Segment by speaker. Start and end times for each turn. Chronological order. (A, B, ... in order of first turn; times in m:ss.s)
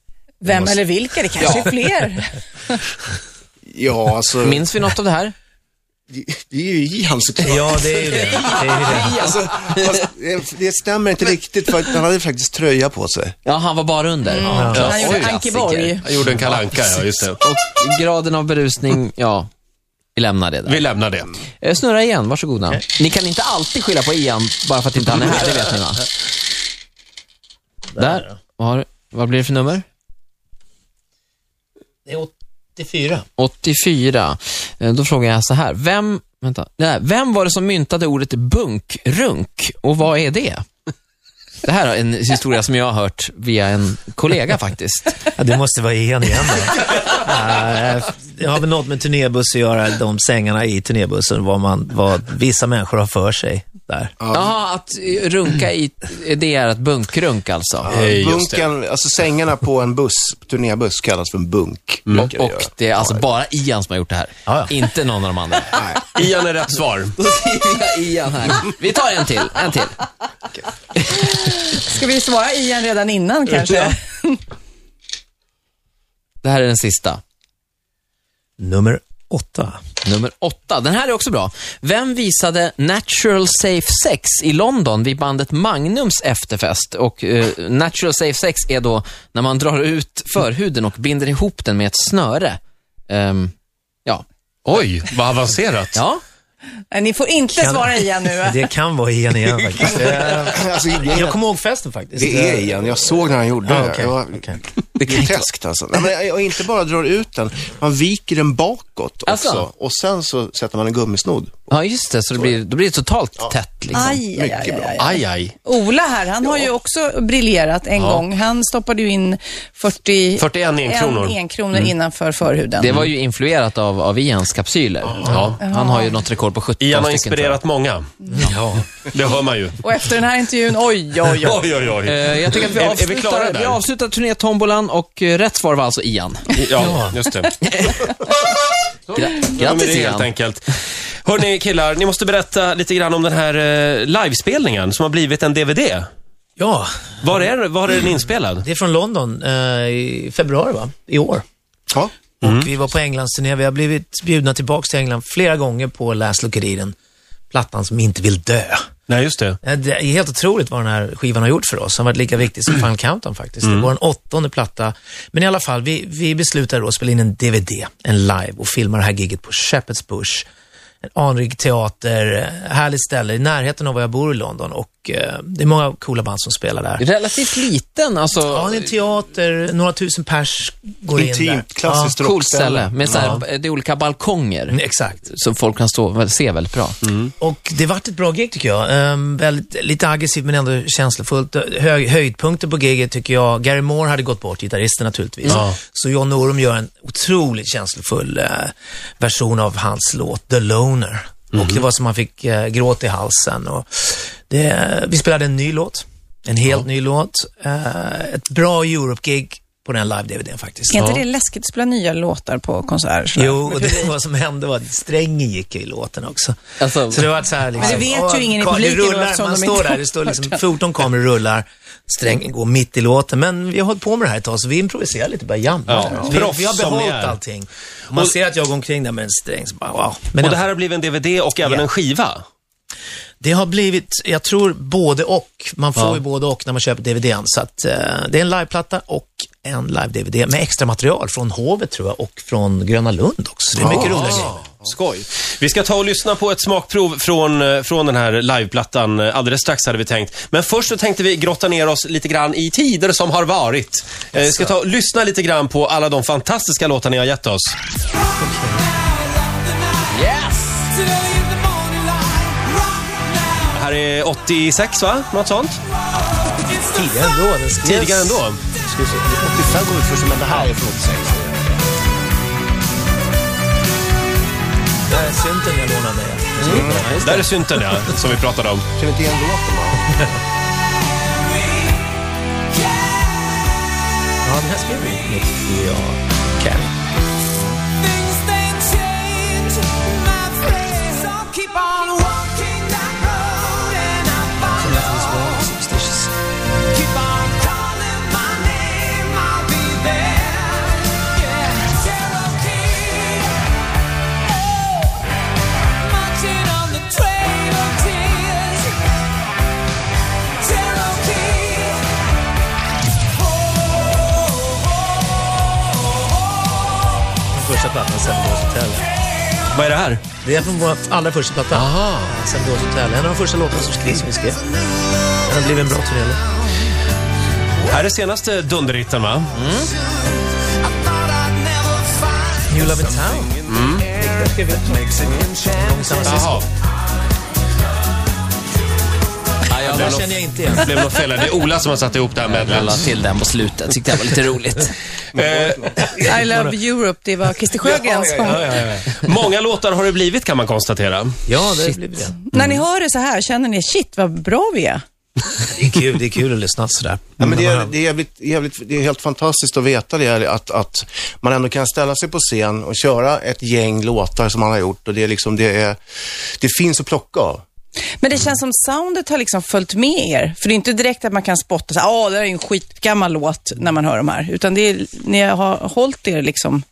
0:00.4-0:02.8 A
0:00.5-0:00.8 B
0:01.4-0:01.7 C
0:03.6-0:04.7 D
0:04.4-0:05.3 C
0:06.1-0:13.4 D
0:07.4-0:09.3 B
0:08.1-0:10.0 C
0:13.4-0:16.0 C
0:14.3-0:16.0 A
0:14.4-0:15.0 B
0:14.8-0:15.1 E
0:16.0-0:17.4 E
0:16.2-0:16.8 B
0:17.3-0:19.5 C
0:20.2-0:20.9 C
0:20.6-0:21.4 E
0:21.6-0:26.1 C
0:28.0-0:28.4 B
0:28.0-0:29.8 C
0:32.0-0:33.2 B
0:33.4-0:40.6 C
0:41.6-0:45.2 C
0:45.4-0:54.1 B
0:54.2-0:54.5 D
0:54.3-0:58.0 C
0:57.9-0:58.6 E
0:57.9-1:03.2 D
1:02.1-1:05.8 C
1:05.7-1:06.0 D
1:06.0-1:07.2 E
1:07.2-1:10.0 C
1:11.3-1:14.4 A
1:16.4-1:17.2 C
1:18.6-1:19.8 B
1:20.0-1:33.5 C
1:34.6-1:36.0 E
1:35.9-1:36.2 C
1:36.9-1:38.6 A
1:37.5-1:44.6 B
1:39.9-1:41.4 D
1:42.2-1:51.7 D
1:45.0-1:45.5 C
1:49.3-1:49.6 C
1:51.7-1:54.2 C
1:52.3-1:52.6 D
1:53.9-2:03.0 A
1:54.2-1:55.0 D
1:55.0-1:55.5 E
1:56.4-1:56.7 D
1:58.0-1:58.2 E
2:00.4-2:01.9 E
2:02.8-2:07.6 C
2:05.2-2:05.6 E
2:05.6-2:06.2 A
2:06.8-2:08.1 E
2:08.3-2:08.9 B
2:09.0-2:09.8 E
2:09.8-2:11.7 A
2:11.3-2:13.8 E
2:12.0-2:16.6 C
2:16.5-2:17.6 E
2:16.8-2:17.2 B
2:19.1-2:20.3 C
2:19.2-2:20.7 E
2:21.2-2:26.1 E
2:26.6-2:26.9 B
2:27.2-2:28.6 E
2:28.6-2:31.4 B
2:32.4-2:36.9 B
2:32.4-2:32.7 E
2:37.5-2:38.8 B
2:39.1-2:39.6 E
2:39.6-2:50.4 B
2:51.0-2:57.0 B
2:57.0-2:58.8 C
2:58.5-3:02.2 B
3:01.1-3:03.4 D
3:02.2-3:07.0 C
3:03.0-3:03.4 B
3:04.7-3:05.2 B
3:07.0-3:07.3 E
3:07.4-3:31.0 B
3:21.5-3:21.8 E
3:30.9-3:34.1 A
3:31.0-3:31.2 E
3:33.4-3:50.6 B
3:36.8-3:37.3 C
3:37.7-3:40.6 A
3:45.9-3:47.4 E
3:50.4-3:52.4 E
3:53.4-4:04.6 B
4:03.8-4:17.8 E
4:03.9-4:04.3 D
4:18.4-4:18.9 B
4:20.1-4:22.4 C
4:23.7-4:25.8 E
4:26.8-4:29.3 B
4:27.8-4:28.6 E
4:29.1-4:31.8 D
4:35.1-4:38.2 B
4:36.6-4:37.1 D
4:36.6-4:37.4 C
4:37.1-4:38.9 E
4:38.9-4:40.4 D
4:44.4-4:46.9 B
4:48.4-4:54.9 C
4:54.6-4:56.3 B
4:57.0-5:03.3 C
5:06.1-5:08.9 C
5:10.7-5:11.9 C
5:17.5-5:19.0 B
5:19.7-5:20.2 E
5:20.4-5:24.6 B
5:21.7-5:22.3 E
5:25.4-5:26.8 B
5:27.8-5:29.6 E
5:29.5-5:30.0 C
5:32.6-5:36.7 B
5:33.7-5:34.0 E
5:36.2-5:36.7 E
5:39.7-5:40.3 C
5:39.8-5:41.0 B
5:39.8-5:43.1 E
5:42.4-5:45.0 C
5:45.3-5:46.4 D
5:45.3-5:46.0 E
5:46.1-5:46.7 B
5:46.2-5:48.8 A
5:47.8-5:48.6 D
5:48.4-5:49.1 B
5:49.1-5:51.4 E
5:51.4-5:52.4 B
5:52.5-5:55.0 A
5:52.5-5:52.8 E
5:55.7-5:57.9 B
5:57.4-6:06.0 D
6:06.6-6:07.6 D
6:08.2-6:16.8 A